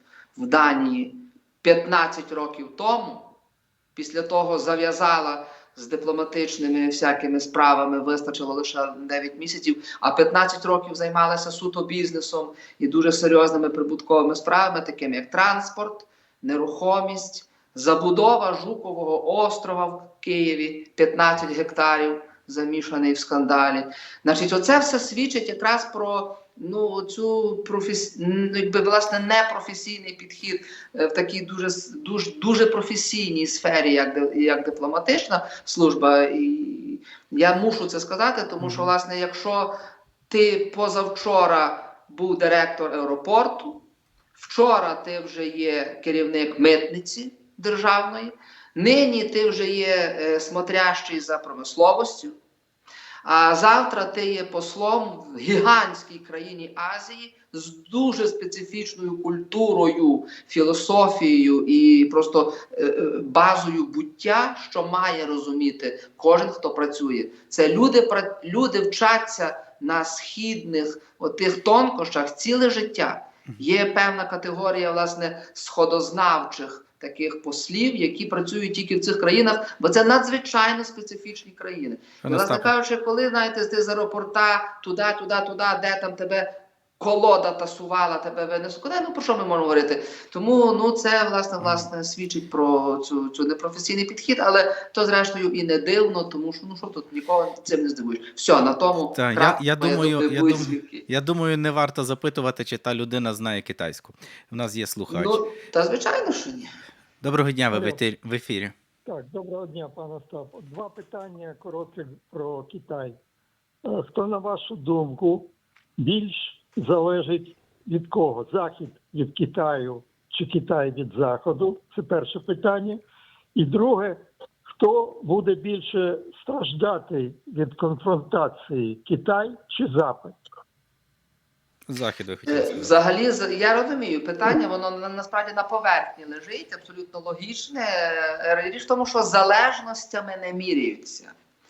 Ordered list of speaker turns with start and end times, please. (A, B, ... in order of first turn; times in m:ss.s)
0:00.4-0:03.3 A
0:04.0-0:39.7 A
0:38.6-0:38.9 B
0:40.3-0:43.8 A
0:44.4-0:52.4 A
0:53.2-1:41.0 A
1:22.2-1:22.7 B
1:39.1-1:45.4 B
1:45.1-1:46.7 A
1:47.2-1:48.7 B
1:47.7-1:48.0 C
1:49.0-1:53.2 C
1:53.8-2:03.0 C
2:03.6-2:10.4 C
2:11.9-2:12.9 B
2:12.5-2:21.3 A